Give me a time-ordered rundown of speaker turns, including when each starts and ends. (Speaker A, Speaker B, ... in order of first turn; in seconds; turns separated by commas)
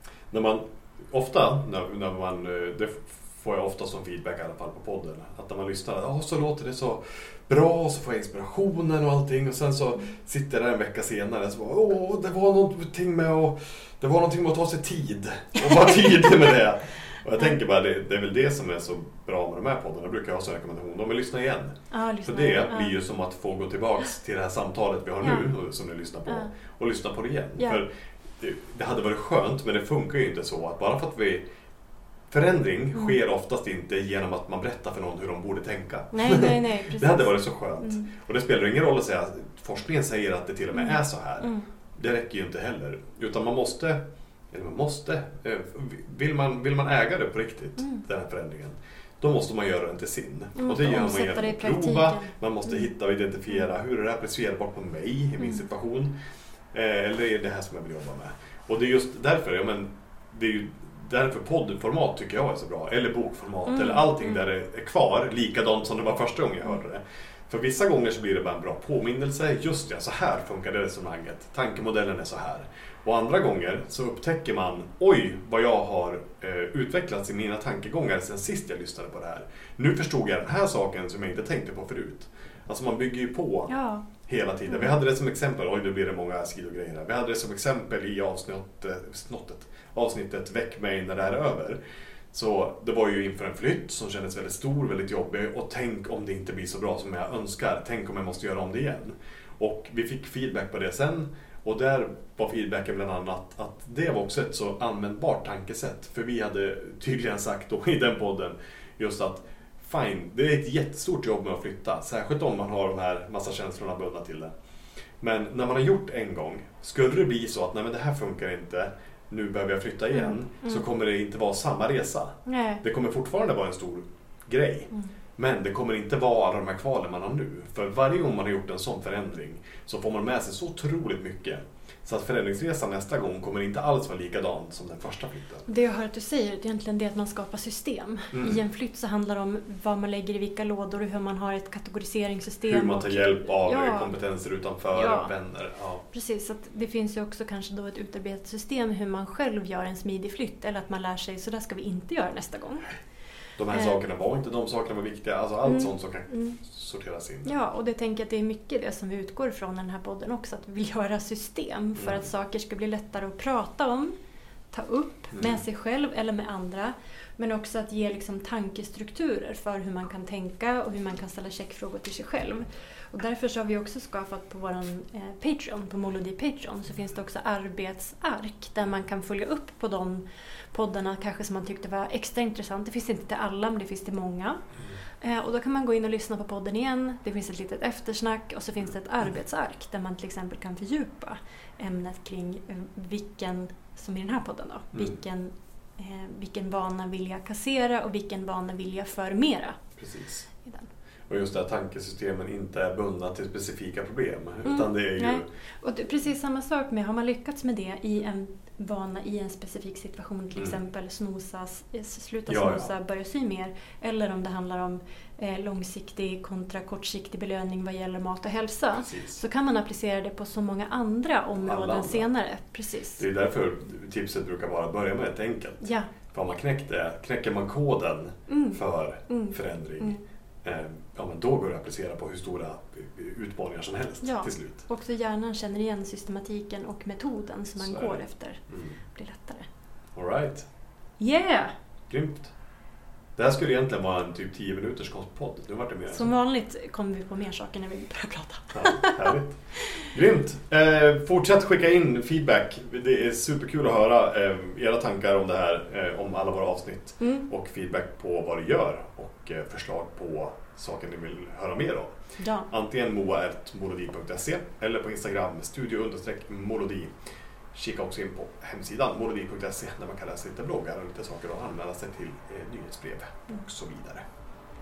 Speaker A: 0.3-31.4, Speaker B: 21.9-22.9, Speaker B: 25.2-25.5, Speaker A: 32.3-56.1, Speaker B: 36.1-38.1, Speaker B: 40.7-41.7, Speaker B: 47.8-48.0, Speaker B: 50.6-52.9, Speaker B: 55.4-55.6, Speaker A: 56.7-91.8, Speaker B: 63.7-64.4, Speaker B: 83.7-84.1, Speaker B: 84.7-85.0, Speaker A: 92.3-114.5, Speaker A: 115.2-135.7, Speaker B: 120.1-120.8, Speaker B: 122.5-122.8, Speaker B: 135.7-144.1, Speaker A: 138.3-138.6, Speaker A: 142.7-146.0, Speaker B: 144.9-145.3, Speaker B: 146.1-152.9, Speaker A: 153.6-157.5, Speaker B: 153.7-154.0, Speaker B: 155.7-156.6, Speaker B: 157.4-164.2, Speaker A: 162.0-162.3, Speaker B: 164.7-184.6, Speaker A: 165.3-165.6, Speaker B: 185.2-199.8, Speaker A: 200.0-200.5, Speaker B: 200.6-200.9, Speaker A: 201.3-205.4, Speaker B: 204.7-223.2, Speaker A: 212.5-212.9, Speaker A: 219.0-219.4, Speaker A: 221.6-222.3, Speaker A: 223.2-234.8, Speaker B: 225.8-226.1, Speaker B: 228.5-230.2, Speaker B: 234.2-239.7, Speaker A: 237.8-239.0, Speaker A: 240.2-240.7, Speaker B: 241.2-241.7, Speaker A: 242.1-242.5, Speaker A: 243.4-246.3, Speaker B: 246.1-250.1, Speaker A: 248.7-262.2, Speaker B: 257.2-257.5, Speaker B: 262.4-262.7, Speaker A: 262.7-267.1, Speaker A: 267.7-274.2